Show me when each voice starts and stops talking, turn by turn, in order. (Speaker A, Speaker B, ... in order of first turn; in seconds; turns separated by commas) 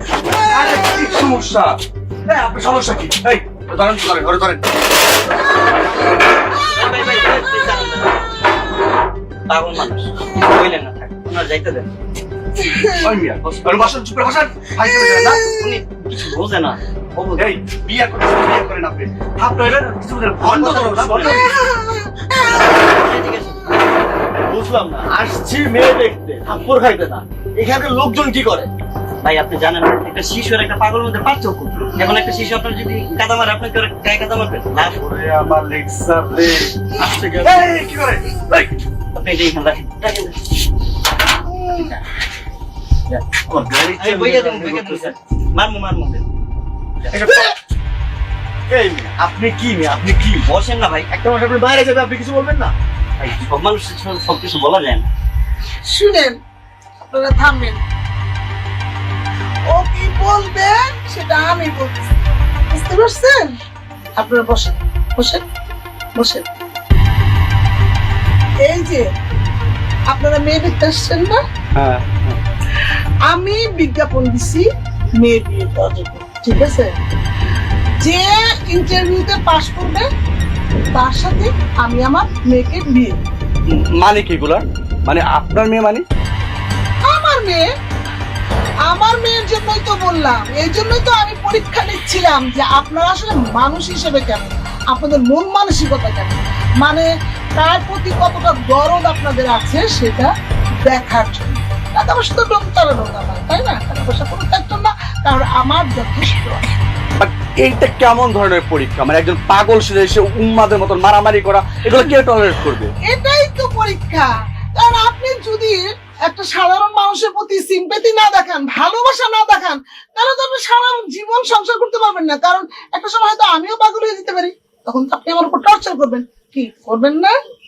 Speaker A: 0.3-4.7, Speaker B: 6.6-8.2, Speaker B: 9.5-11.9, Speaker C: 12.6-13.2, Speaker A: 13.0-15.5, Speaker C: 15.0-15.7, Speaker B: 15.4-17.5, Speaker A: 17.4-21.5, Speaker B: 20.4-21.5, Speaker D: 20.6-21.0, Speaker C: 21.2-22.7, Speaker B: 22.8-23.7, Speaker D: 24.5-28.7, Speaker B: 29.2-35.0, Speaker D: 35.4-37.3, Speaker A: 37.4-38.7, Speaker B: 39.1-40.4, Speaker D: 43.7-44.9, Speaker B: 44.0-46.2, Speaker D: 48.7-50.5, Speaker B: 50.4-51.1, Speaker D: 51.1-52.7, Speaker B: 53.2-55.1, Speaker C: 55.9-56.4, Speaker C: 57.1-57.8, Speaker C: 59.7-63.5, Speaker C: 64.2-65.4, Speaker C: 66.2-66.5, Speaker C: 68.6-69.1, Speaker C: 70.1-71.4, Speaker A: 71.8-72.4, Speaker C: 73.3-76.9, Speaker C: 78.0-80.1, Speaker C: 80.9-83.2, Speaker A: 83.7-86.0, Speaker C: 87.1-87.7, Speaker C: 88.9-100.3, Speaker C: 100.8-106.6, Speaker A: 107.2-112.9, Speaker C: 113.0-127.3